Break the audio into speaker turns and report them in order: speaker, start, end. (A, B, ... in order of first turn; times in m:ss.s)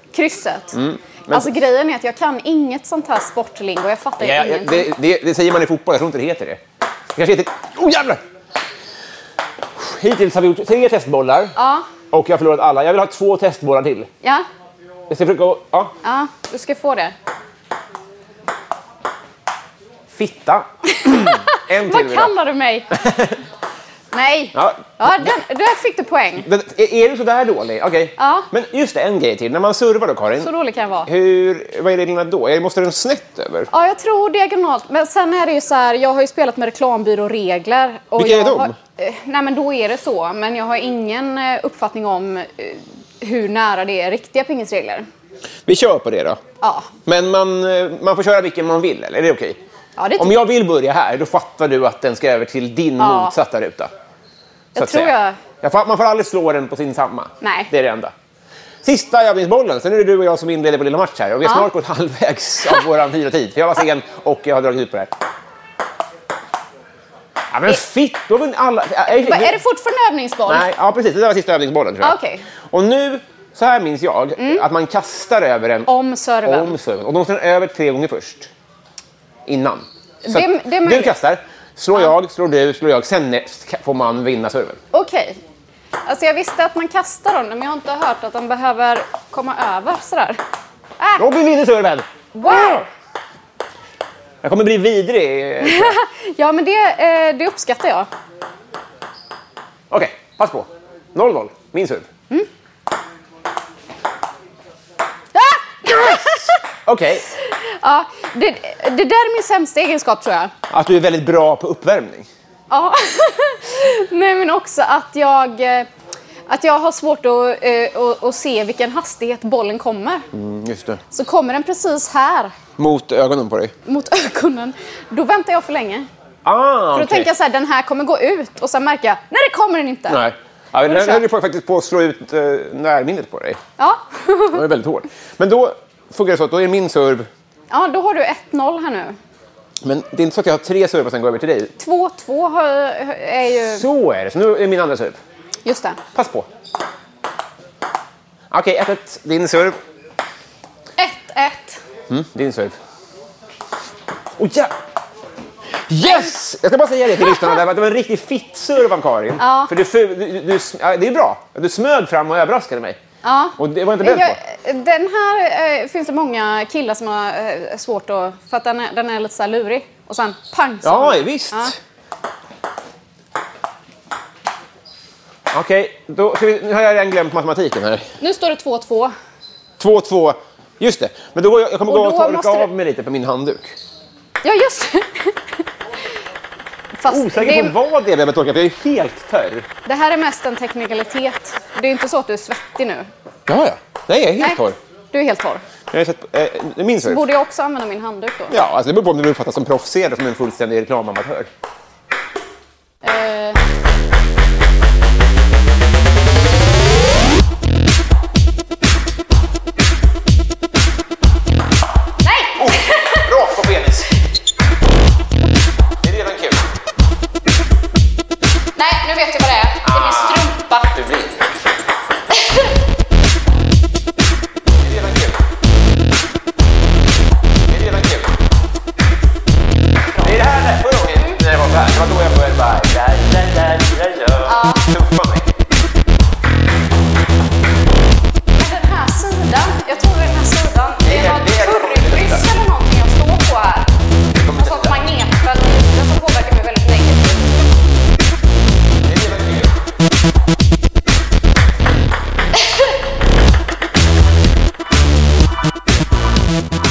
0:00.1-0:00.8 A
0:00.7-0:01.5 B
0:01.3-0:04.9 A
0:04.2-0:06.6 B
0:07.1-0:08.2 B
0:09.8-0:11.5 B
0:11.6-0:11.9 A
0:12.1-0:14.1 B
0:15.1-0:15.9 B
0:16.0-0:17.1 A
0:20.1-0:22.3 B
0:21.0-0:22.9 A
0:22.9-0:23.4 B
0:24.1-0:26.5 A
0:24.6-0:25.3 B
0:26.4-0:30.5 B
0:28.2-0:28.5 A
0:30.4-0:31.1 A
0:31.1-0:33.7 B
0:33.7-0:45.1 A
0:38.2-0:38.7 B
0:45.7-0:46.4 B
0:46.6-0:46.9 A
0:47.1-0:49.6 B
0:50.0-0:50.4 A
0:50.2-0:53.9 B
0:53.0-0:53.4 A
0:54.8-0:55.4 A
0:54.8-0:58.1 B
0:57.4-0:57.7 A
0:58.8-1:05.1 B
1:01.4-1:01.7 A
1:07.5-1:09.6 B
1:09.1-1:10.7 A
1:10.5-1:12.2 B
1:12.0-1:12.4 A
1:12.7-1:15.9 B
1:14.4-1:14.7 A
1:15.9-1:16.8 A
1:16.4-1:18.5 B
1:19.5-1:24.8 B
1:20.2-1:21.1 A
1:24.9-1:25.4 A
1:26.1-1:30.4 A
1:31.0-1:31.3 A
1:31.2-1:32.8 B
1:32.4-1:32.9 A
1:34.4-1:36.0 B
1:35.6-1:38.1 A
1:39.9-1:42.1 B
1:45.4-1:46.6 A
1:45.9-1:47.3 B
1:47.6-1:50.5 A
1:50.7-1:52.3 B
1:52.7-1:55.9 A
1:56.5-2:00.3 A
2:00.3-2:01.0 B
2:01.1-2:02.6 A
2:02.8-2:03.7 B
2:03.9-2:06.1 A
2:06.4-2:07.3 B
2:06.9-2:10.2 A
2:10.1-2:13.6 B
2:10.8-2:11.2 A
2:13.8-2:14.6 A
2:14.5-2:17.3 B
2:17.7-2:19.2 A
2:19.8-2:21.7 B
2:21.8-2:23.8 A
2:23.7-2:25.2 B
2:25.6-2:26.0 A
2:26.1-2:26.5 B
2:28.5-2:29.8 B
2:31.0-2:31.8 A
2:32.1-2:32.8 B
2:34.4-2:34.7 B
2:35.9-2:43.0 B
2:36.0-2:36.4 A
2:37.2-2:37.6 A
2:39.4-2:39.7 A
2:43.2-2:51.7 A
2:43.6-2:44.4 B
2:50.8-2:51.8 B
2:55.5-2:58.1 B
2:58.2-2:59.1 A
2:59.8-3:03.8 B
3:01.9-3:02.7 A
3:04.4-3:05.6 A
3:07.0-3:07.8 A
3:07.1-3:09.7 B
3:09.9-3:13.1 A
3:13.5-3:14.8 B
3:15.1-3:15.6 A
3:15.9-3:17.2 B
3:17.0-3:18.6 A
3:18.5-3:21.5 B
3:23.0-3:23.6 A
3:32.2-3:33.2 A
3:32.6-3:34.1 B
3:36.0-3:36.7 B
3:38.8-3:40.9 A
3:39.8-3:41.4 B
3:44.8-3:45.4 B
3:47.7-3:48.4 B
3:50.2-3:55.5 B
3:54.4-3:54.8 A
3:58.6-4:03.9 A
4:01.0-4:02.4 B
4:04.4-4:05.0 B
4:04.5-4:07.5 A
4:09.0-4:09.8 B